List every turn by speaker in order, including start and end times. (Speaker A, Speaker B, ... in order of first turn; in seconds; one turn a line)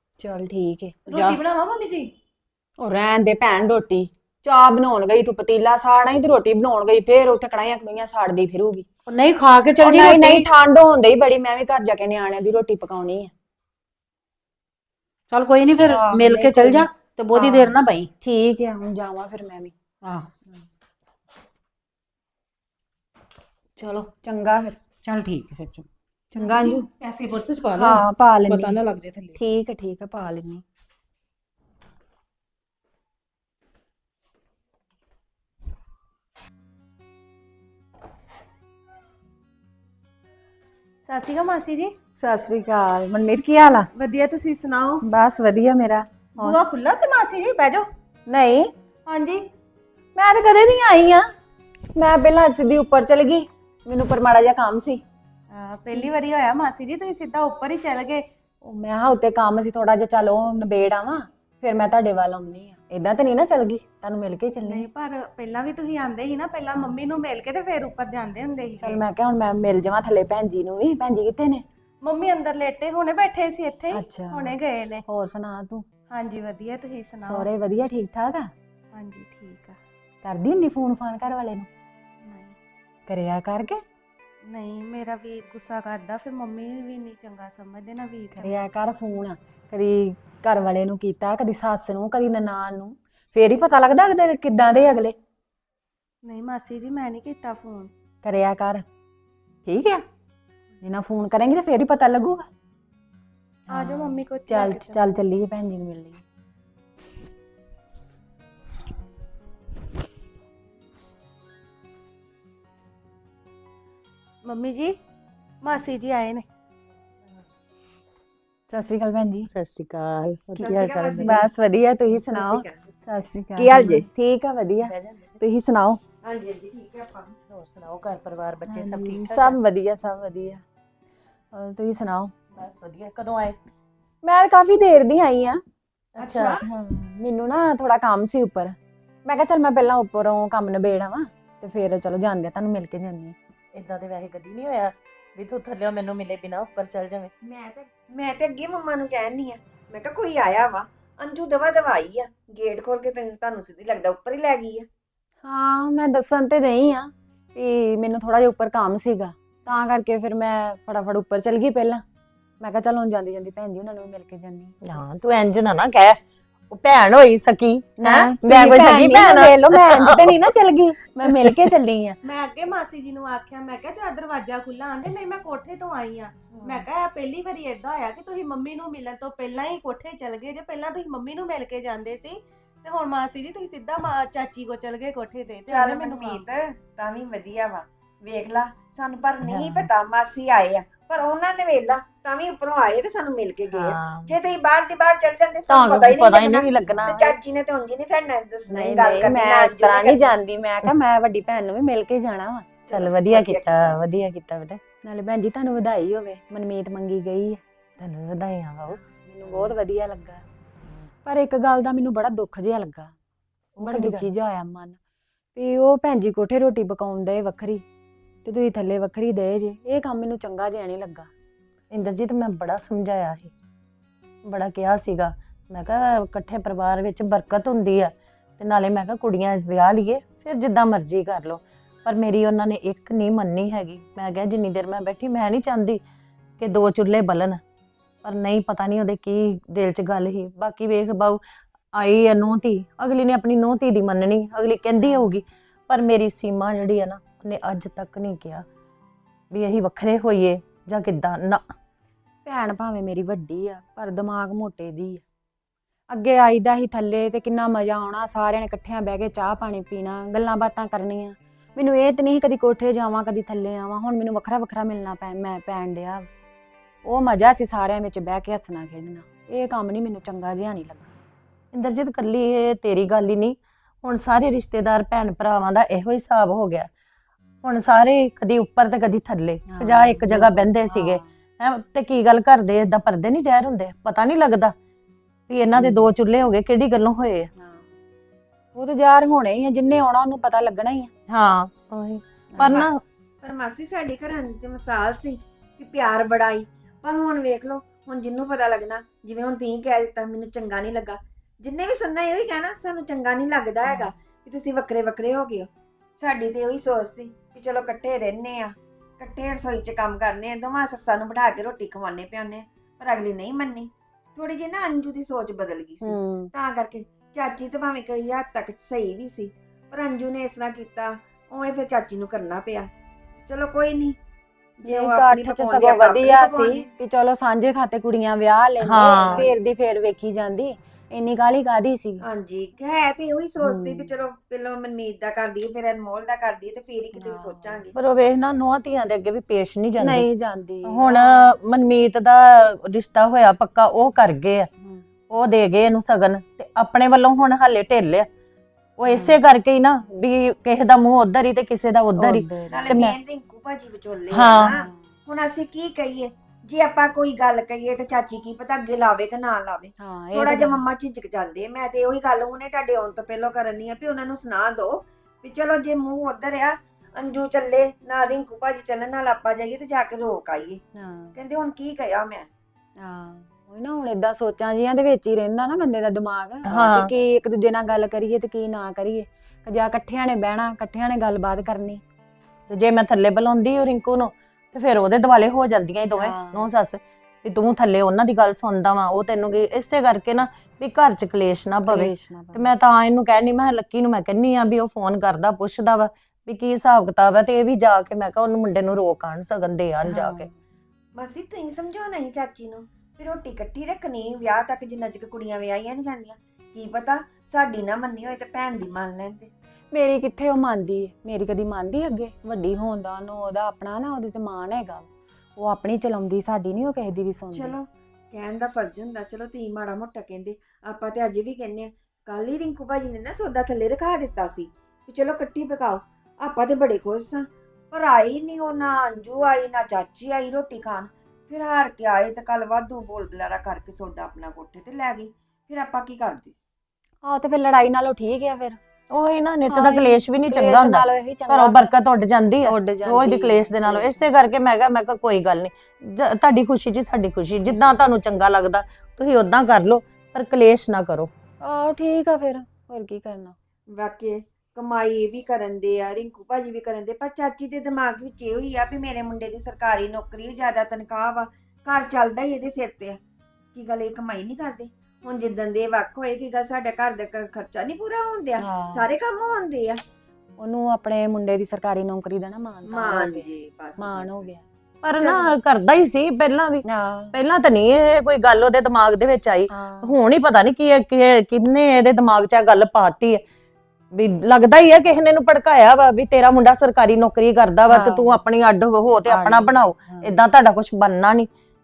Speaker A: 0.2-1.0
Speaker B: 1.1-1.4
Speaker C: 1.1-2.1
Speaker A: 2.8-8.8
Speaker B: 9.1-10.4
Speaker A: 9.8-13.3
Speaker B: 15.3-18.1
Speaker A: 15.8-19.7
Speaker B: 20.0-20.3
Speaker A: 23.8-24.8
Speaker B: 25.0-25.9
Speaker A: 26.3-26.9
Speaker C: 26.4-27.9
Speaker A: 27.8-28.8
Speaker C: 28.5-29.4
Speaker A: 29.4-30.6
Speaker D: 41.1-41.9
Speaker A: 42.2-43.9
Speaker D: 44.0-45.0
Speaker A: 45.0-46.6
Speaker D: 46.4-47.8
Speaker A: 48.3-48.7
Speaker D: 49.1-49.4
Speaker A: 50.1-51.3
Speaker A: 51.9-55.0
Speaker D: 55.5-58.2
Speaker A: 58.6-64.9
Speaker D: 64.6-69.0
Speaker A: 68.8-71.6
Speaker D: 72.0-75.0
Speaker A: 73.9-74.5
Speaker A: 75.1-75.8
Speaker D: 76.1-77.5
Speaker A: 77.2-78.5
Speaker D: 78.9-79.8
Speaker A: 80.2-81.7
Speaker D: 82.2-82.5
Speaker A: 83.1-83.8
Speaker D: 84.5-88.6
Speaker A: 88.3-95.2
Speaker D: 96.2-97.9
Speaker A: 98.2-98.8
Speaker A: 99.6-100.0
Speaker A: 100.8-102.5
Speaker D: 103.7-105.1
Speaker A: 103.7-106.2
Speaker D: 114.4-115.0
Speaker D: 115.6-116.5
Speaker A: 118.7-119.5
Speaker E: 119.5-121.5
Speaker F: 120.6-121.5
Speaker A: 121.2-126.0
Speaker F: 122.2-122.8
Speaker F: 123.6-124.1
Speaker E: 124.8-125.4
Speaker F: 126.2-127.3
Speaker E: 127.5-129.6
Speaker A: 128.7-130.6
Speaker A: 131.5-132.3
Speaker E: 132.5-133.6
Speaker A: 134.2-135.6
Speaker E: 136.2-136.6
Speaker F: 136.2-136.6
Speaker A: 136.5-143.3
Speaker E: 143.7-147.3
Speaker F: 147.4-154.9
Speaker A: 155.4-162.0
Speaker A: 162.6-164.8
Speaker E: 164.8-166.2
Speaker E: 166.7-170.4
Speaker A: 168.0-172.2
Speaker E: 171.2-171.7
Speaker D: 172.2-186.4
Speaker F: 176.5-176.8
Speaker F: 185.7-200.3
Speaker E: 189.4-189.9
Speaker E: 193.8-194.3
Speaker E: 195.7-197.3
Speaker A: 198.7-202.7
Speaker F: 202.9-203.9
Speaker E: 202.9-204.8
Speaker A: 205.0-207.6
Speaker E: 208.0-209.7
Speaker A: 209.3-210.4
Speaker A: 211.2-213.1
Speaker E: 213.8-214.3
Speaker A: 213.8-215.0
Speaker A: 215.6-217.8
Speaker A: 218.4-221.3
Speaker E: 221.9-223.5
Speaker E: 224.4-236.0
Speaker E: 236.6-237.6
Speaker E: 238.2-241.4
Speaker E: 241.9-248.6
Speaker A: 245.0-245.3
Speaker E: 249.5-251.6
Speaker A: 252.4-255.2
Speaker A: 256.1-266.3
Speaker A: 267.0-271.1
Speaker E: 271.7-276.9
Speaker E: 277.6-284.7
Speaker A: 279.7-281.2
Speaker E: 285.5-287.5
Speaker A: 285.8-286.1
Speaker A: 287.6-287.9
Speaker A: 288.7-291.1
Speaker E: 291.3-292.9
Speaker A: 292.5-292.8
Speaker F: 292.6-292.9
Speaker F: 293.4-305.7
Speaker F: 306.2-322.9
Speaker A: 316.0-316.5
Speaker F: 323.4-324.2
Speaker F: 324.8-326.9
Speaker A: 324.9-332.2
Speaker E: 328.8-329.5
Speaker F: 329.0-329.5
Speaker F: 332.2-337.9
Speaker A: 333.6-334.1
Speaker A: 337.2-337.8
Speaker E: 337.9-340.3
Speaker A: 340.0-341.1
Speaker E: 340.8-344.7
Speaker F: 341.1-341.4
Speaker E: 345.3-348.3
Speaker E: 349.0-353.1
Speaker A: 349.1-349.4
Speaker A: 352.1-352.9
Speaker F: 352.7-370.8
Speaker E: 354.3-354.7
Speaker A: 354.7-355.0
Speaker A: 360.0-360.8
Speaker A: 370.9-371.3
Speaker F: 371.3-372.5
Speaker A: 373.0-382.0
Speaker E: 376.6-377.1
Speaker E: 382.7-400.5
Speaker A: 386.1-386.7
Speaker A: 391.9-392.7
Speaker A: 400.0-400.5
Speaker F: 401.1-409.5
Speaker A: 409.9-417.7
Speaker F: 417.5-436.5
Speaker A: 437.2-438.8
Speaker E: 439.1-451.3
Speaker A: 439.7-441.9
Speaker A: 442.6-444.2
Speaker A: 451.6-453.5
Speaker F: 453.9-463.2
Speaker F: 463.7-470.0
Speaker A: 468.6-469.1
Speaker A: 470.6-473.4
Speaker F: 472.9-474.5
Speaker A: 474.0-474.6
Speaker E: 475.0-483.4
Speaker F: 475.2-475.5
Speaker A: 476.9-477.3
Speaker A: 479.7-480.2
Speaker E: 484.1-491.5
Speaker A: 487.9-488.4
Speaker A: 489.2-490.3